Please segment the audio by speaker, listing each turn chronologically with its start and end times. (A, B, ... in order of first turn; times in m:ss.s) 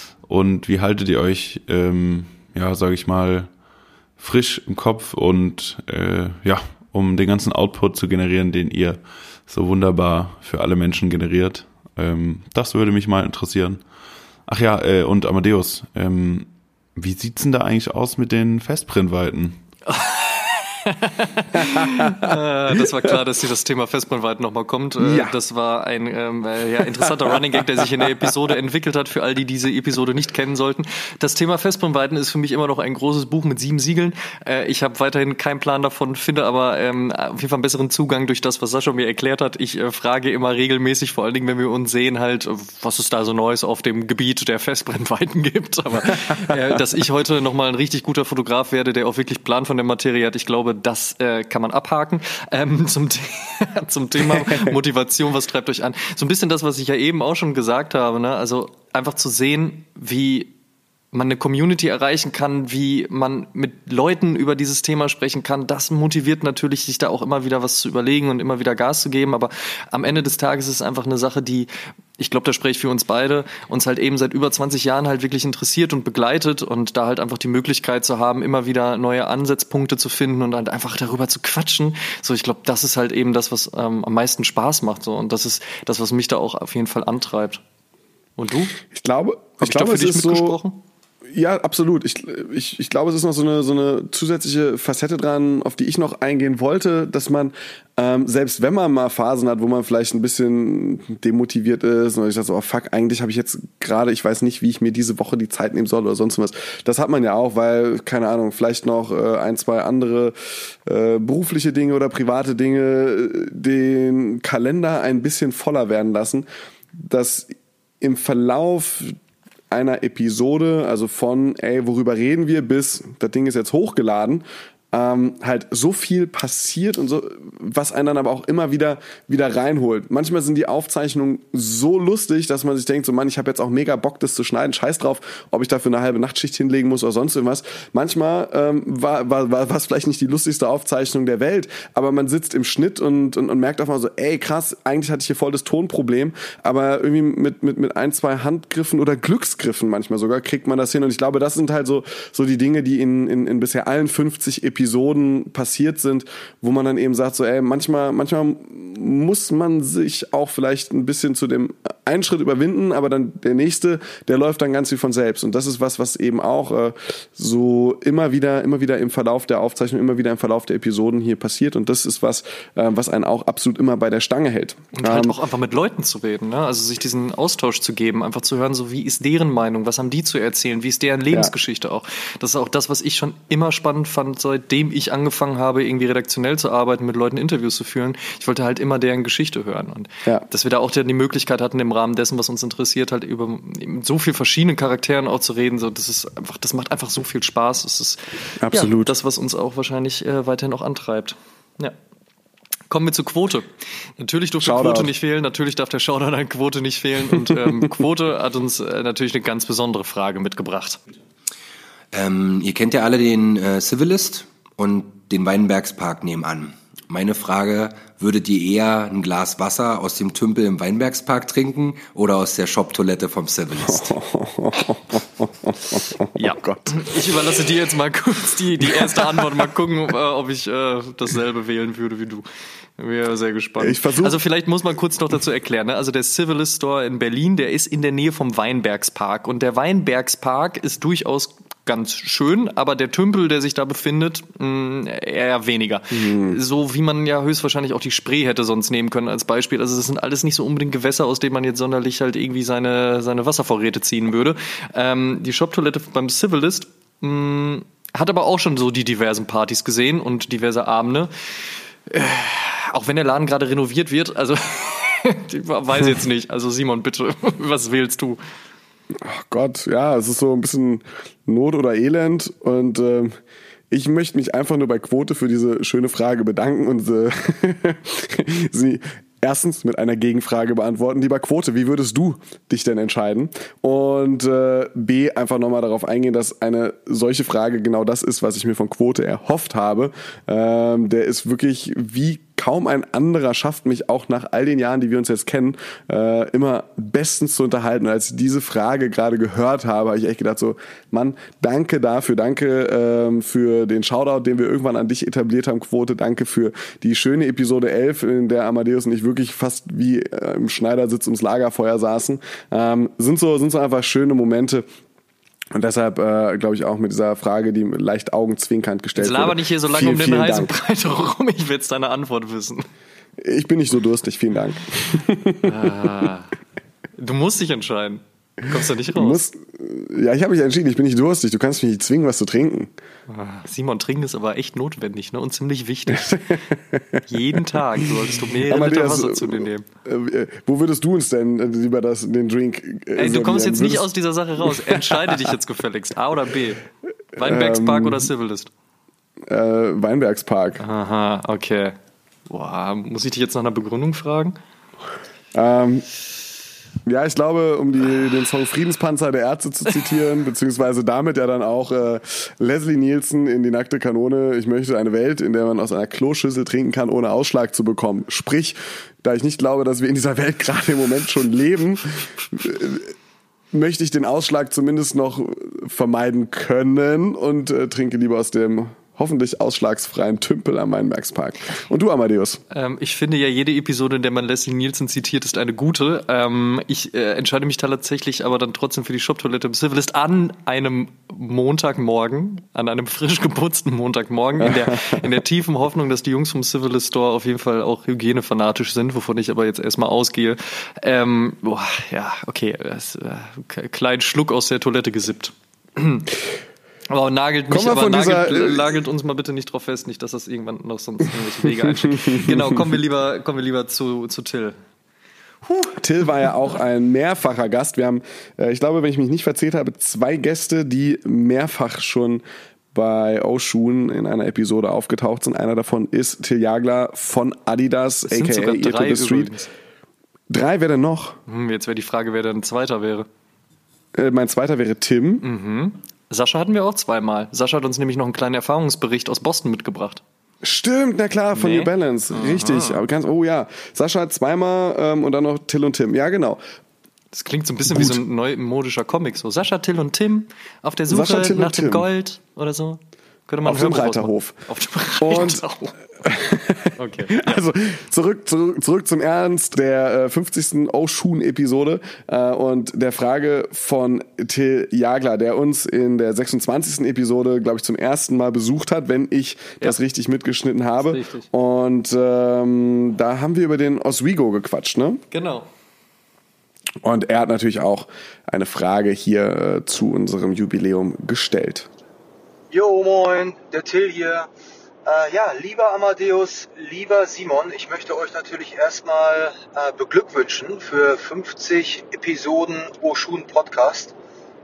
0:00.2-0:03.5 A
0:04.2-0:13.8 A
0:14.5-0:19.6 A
0:19.9-1:00.5 B
0:25.0-0:25.3 C
0:27.0-0:28.3 C
0:46.5-0:46.8 C
0:54.2-0:54.7 C
1:01.1-1:27.6 B
1:28.4-1:28.8 B
1:28.9-1:30.6 C
1:29.6-1:30.8 B
1:31.3-1:59.2 C
1:59.7-2:55.4 C
2:55.0-3:22.0 B
3:18.6-3:19.1 C
3:22.9-3:23.7 B
3:24.2-3:31.0 B
3:24.6-3:25.1 C
3:32.1-3:44.1 D
3:43.9-3:47.3 C
3:46.4-3:52.5 B
3:48.9-3:49.4 C
3:53.0-4:21.3 B
3:53.8-3:54.4 C
4:06.1-4:06.6 C
4:22.1-4:28.4 B
4:29.2-4:33.4 C
4:33.9-5:14.8 C
5:15.7-5:20.7 C
5:19.2-5:22.9 B
5:23.4-5:26.2 C
5:25.6-5:26.5 B
5:27.2-5:29.4 B
5:29.1-5:32.9 C
5:33.3-5:36.4 B
5:36.1-5:37.2 C
5:37.3-5:39.9 B
5:38.7-5:44.1 C
5:43.2-5:46.8 B
5:44.6-5:45.5 C
5:47.4-5:48.3 C
5:47.4-5:48.7 B
5:49.5-5:50.8 C
5:50.8-5:52.0 B
5:52.5-5:54.6 B
5:55.5-5:56.0 C
5:57.1-6:13.1 C
6:13.7-6:22.6 C
6:22.7-6:46.3 B
6:34.6-6:35.2 C
6:47.1-6:54.8 B
6:47.7-6:48.9 C
6:51.6-6:52.8 C
6:56.0-7:09.6 C
7:08.3-7:09.7 B
7:10.5-7:11.4 C
7:11.5-7:13.3 B
7:14.2-7:15.4 C
7:15.4-7:20.2 B
7:20.6-7:26.6 C
7:21.5-7:23.0 B
7:27.3-7:36.0 B
7:27.9-7:28.2 C
7:31.1-7:32.1 C
7:33.6-7:34.6 C
7:35.2-7:35.6 C
7:36.2-7:55.2 C
7:37.0-7:37.6 B
7:51.0-7:51.5 B
7:55.3-7:55.7 B
7:57.0-8:01.9 C
8:02.7-8:04.5 E
8:05.1-8:14.1 E